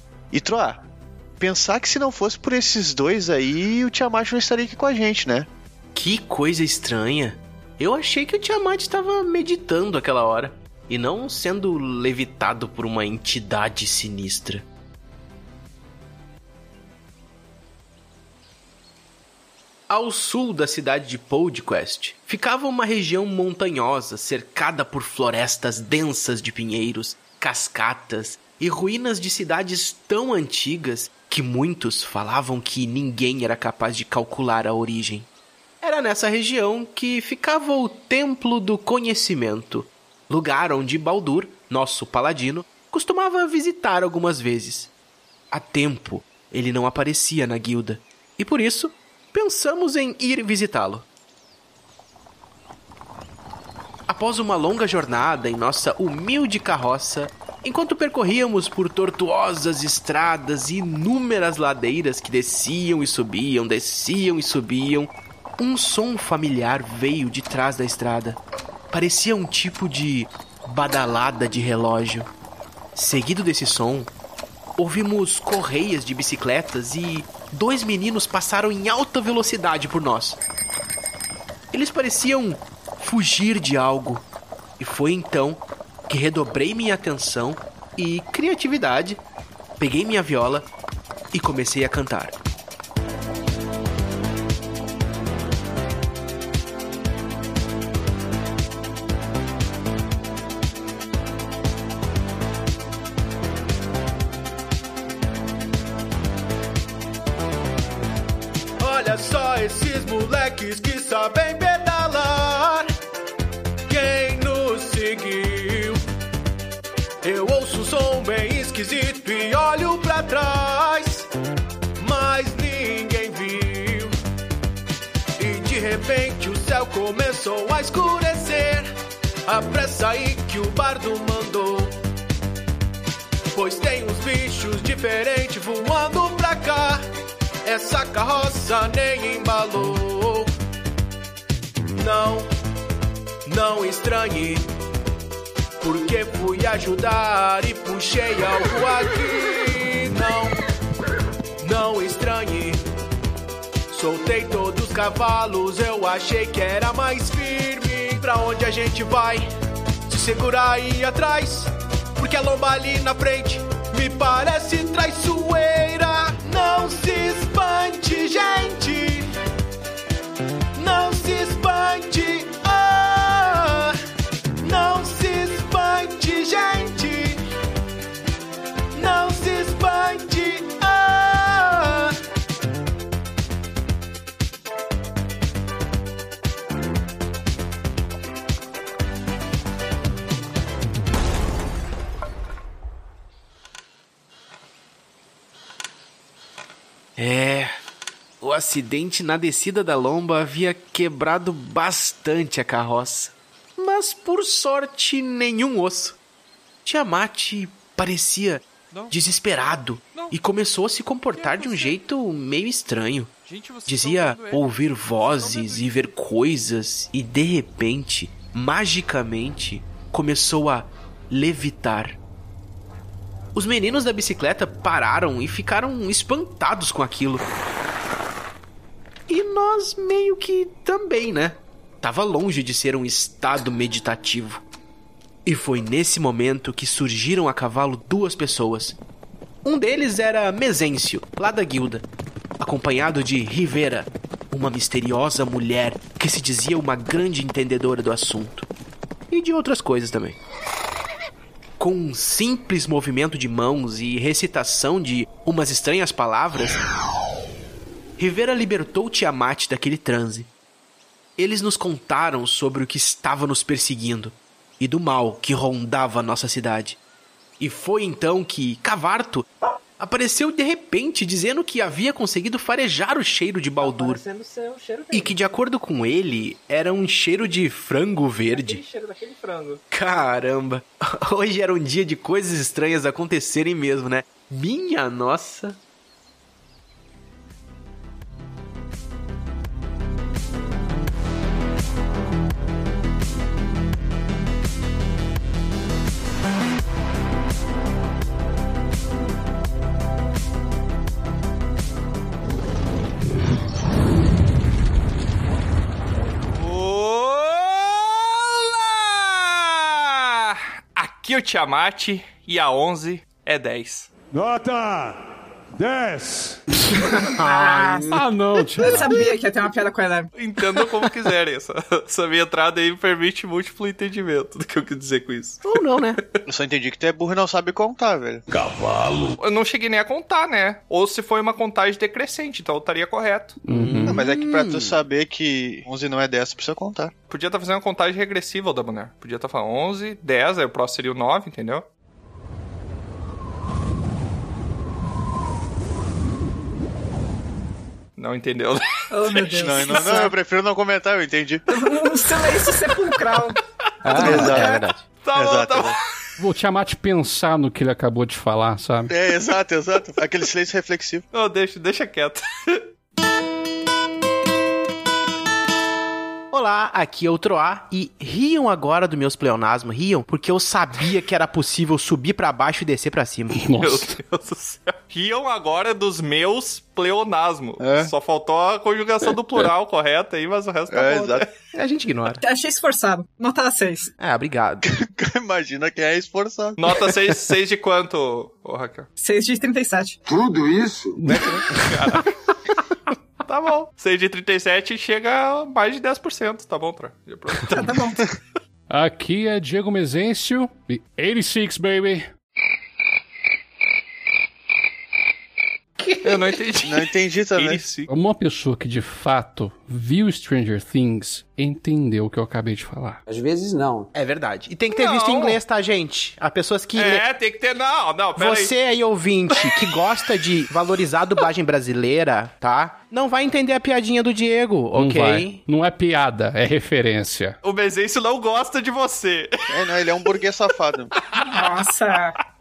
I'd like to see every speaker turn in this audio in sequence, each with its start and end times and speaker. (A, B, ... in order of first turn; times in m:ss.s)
0:00.3-0:00.8 A
0:01.4-0:05.5 A
0:06.0-0:14.6 B
0:19.9-0:35.3 B
0:19.9-0:20.4 C
0:35.8-0:44.9 B
0:45.5-0:51.0 B
0:54.1-1:08.4 B
1:08.9-1:12.3 B
1:13.0-1:14.1 B
1:14.8-1:20.4 B
1:21.7-1:24.2 B
1:24.8-1:29.2 B
1:29.8-1:30.6 B
1:31.3-1:32.3 B
1:48.8-1:52.9 C
1:53.9-1:56.0 C
1:57.2-2:01.3 C
2:02.0-2:04.1 C
2:05.4-2:08.9 C
2:09.4-2:12.0 C
2:13.5-2:17.0 C
2:17.6-2:20.5 C
2:21.9-2:22.5 C
2:23.4-2:24.7 C
2:25.8-2:30.5 C
2:31.6-2:32.8 C
2:33.9-2:39.5 C
2:40.1-2:49.3 C
2:50.8-2:54.0 C
2:54.6-2:57.4 C
2:58.9-3:02.2 C
3:17.2-3:17.7 B
3:18.4-3:26.1 B
3:24.0-3:24.2 C
3:26.8-3:33.3 B
3:31.3-3:31.9 D
3:33.5-3:34.6 D
3:33.8-3:42.2 B
3:35.3-3:35.8 D
3:43.5-3:47.4 B
3:49.3-3:54.6 B
3:55.4-3:59.0 B
3:59.6-4:02.0 B
4:02.6-4:08.6 B
4:09.3-4:10.4 B
4:11.8-4:16.8 B
4:18.2-4:20.5 B
4:21.4-4:27.0 B
4:27.6-4:29.4 B
4:30.0-4:34.3 B
4:35.1-4:38.8 B
4:39.9-4:45.8 B
5:06.5-5:14.1 D
5:14.3-5:16.6 E
5:16.9-5:18.2 F
5:17.6-5:18.0 B
5:18.1-5:19.3 G
5:18.8-5:20.3 F
5:20.4-5:25.6 D
5:20.8-5:21.0 B
5:25.6-5:26.2 B
5:26.4-5:28.4 A
5:28.5-5:29.4 H
5:29.4-5:33.6 D
5:33.6-5:34.2 G
5:33.7-5:35.0 B
5:34.1-5:37.1 A
5:37.3-5:41.8 D
5:48.2-5:49.6 D
5:49.1-5:50.3 F
5:49.6-5:51.7 A
5:51.7-5:53.6 F
5:54.0-5:55.0 B
5:54.1-5:54.8 F
5:54.1-5:54.8 A
5:55.2-5:56.0 D
5:55.3-5:56.0 A
5:56.4-5:59.1 G
5:59.1-6:01.2 A
6:01.3-6:02.8 D
6:06.5-6:13.5 B
6:13.6-6:14.1 G
6:13.7-6:21.5 D
6:20.9-6:21.5 A
6:21.7-6:22.4 B
6:22.4-6:24.1 F
6:24.2-6:24.9 B
6:24.9-6:27.0 A
6:26.8-6:29.1 D
6:29.2-6:30.2 F
6:30.3-6:31.6 H
6:31.8-6:32.3 D
6:33.4-6:38.2 D
6:37.7-6:38.2 F
6:38.9-6:42.3 G
6:46.2-6:48.1 D
6:46.8-6:47.8 A
6:48.1-6:53.2 G
6:53.3-6:54.1 H
6:54.1-6:57.2 B
6:54.9-6:55.6 D
6:57.0-6:58.7 D
6:58.4-7:05.6 B
7:04.9-7:07.6 G
7:07.6-7:09.5 D
7:09.7-7:11.1 A
7:11.3-7:12.4 F